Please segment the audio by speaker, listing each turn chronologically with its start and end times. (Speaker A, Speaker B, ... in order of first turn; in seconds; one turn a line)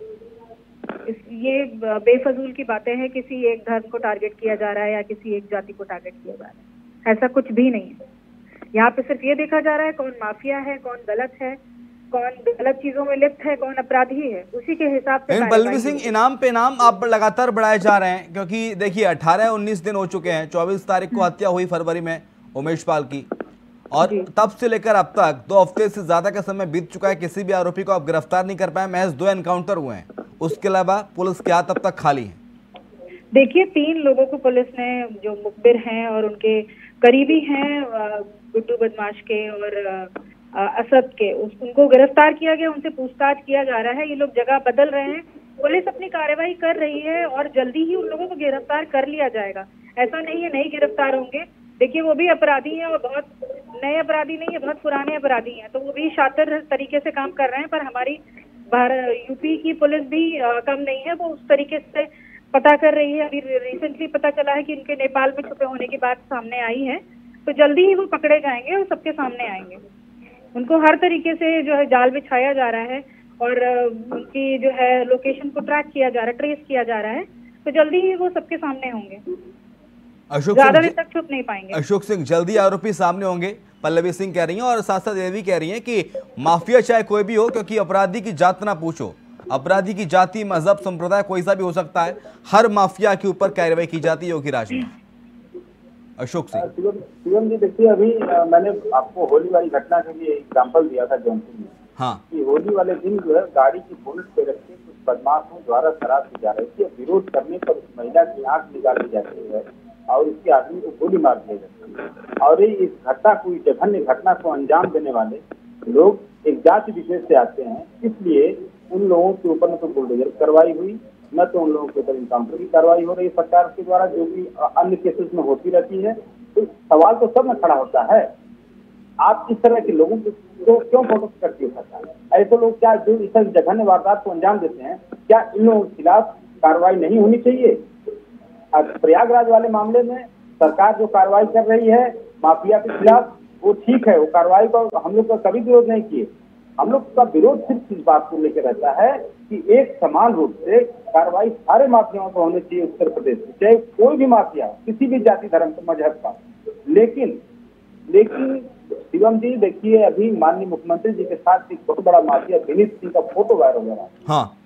Speaker A: 1.1-8.0
Speaker A: 8.7-11.6
Speaker A: 12.1-16.1
Speaker B: 15.3-23.3
Speaker B: 23.9-32.4
Speaker A: 33.3-69.8
Speaker A: 70.5-79.2
Speaker B: 80.3-80.9
Speaker A: 80.5-81.8
Speaker B: 81.7-94.9
Speaker B: 96.2-96.7
Speaker C: 96.6-101.8
Speaker C: 102.3-128.3
Speaker C: 129.2-137.8
Speaker C: 138.7-157.4
Speaker C: 158.1-164.2
Speaker B: 164.3-164.5